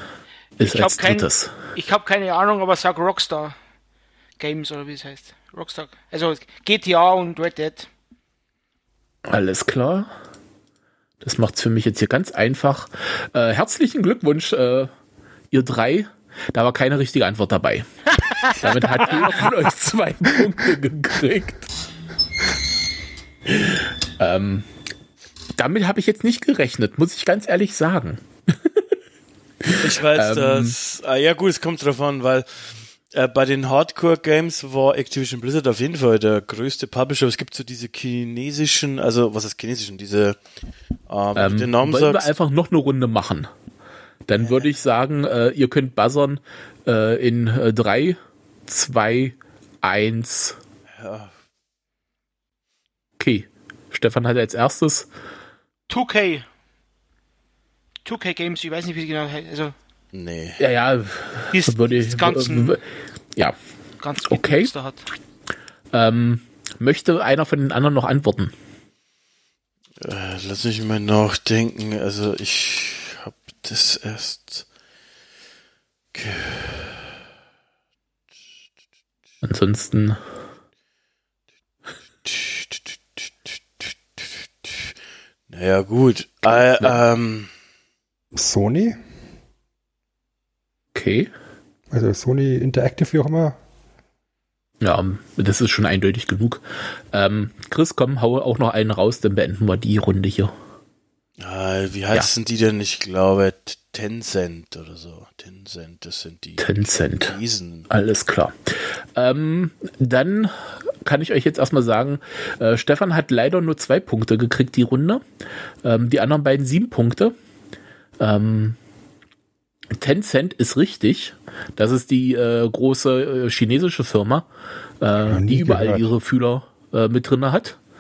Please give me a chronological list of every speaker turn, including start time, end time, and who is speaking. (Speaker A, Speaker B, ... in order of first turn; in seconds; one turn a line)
Speaker A: 0.6-1.5
Speaker B: 0.6-3.5
Speaker B: 4.4-7.9
Speaker A: 9.2-10.1
Speaker A: 11.2-14.9
Speaker A: 15.5-17.9
Speaker B: 18.3-18.6
Speaker A: 18.4-21.7
Speaker A: 23.5-24.7
Speaker A: 25.6-28.8
Speaker A: 29.6-30.7
Speaker C: 29.8-32.5
Speaker C: 33.1-40.4
Speaker C: 41.1-42.3
Speaker A: 41.3-43.5
Speaker A: 44.3-50.6
Speaker C: 51.0-51.3
Speaker A: 53.2-55.1
Speaker B: 55.9-56.4
Speaker B: 58.0-59.7
Speaker C: 60.1-60.6
Speaker A: 60.6-62.8
Speaker B: 61.5-62.8
Speaker B: 64.0-65.0
Speaker A: 64.3-64.7
Speaker A: 65.9-68.5
Speaker C: 70.0-74.6
Speaker C: 76.1-77.0
Speaker A: 79.4-80.2
Speaker C: 82.2-84.9
Speaker C: 85.5-87.5
Speaker A: 86.5-87.0
Speaker D: 88.3-89.0
Speaker A: 90.9-91.3
Speaker D: 91.9-93.6
Speaker A: 94.8-100.5
Speaker C: 101.4-107.9
Speaker A: 106.6-107.3
Speaker A: 107.9-115.2
Speaker A: 115.8-117.3
Speaker A: 118.2-118.8
Speaker A: 120.0-124.5
Speaker A: 125.0-127.8
Speaker D: 125.3-126.1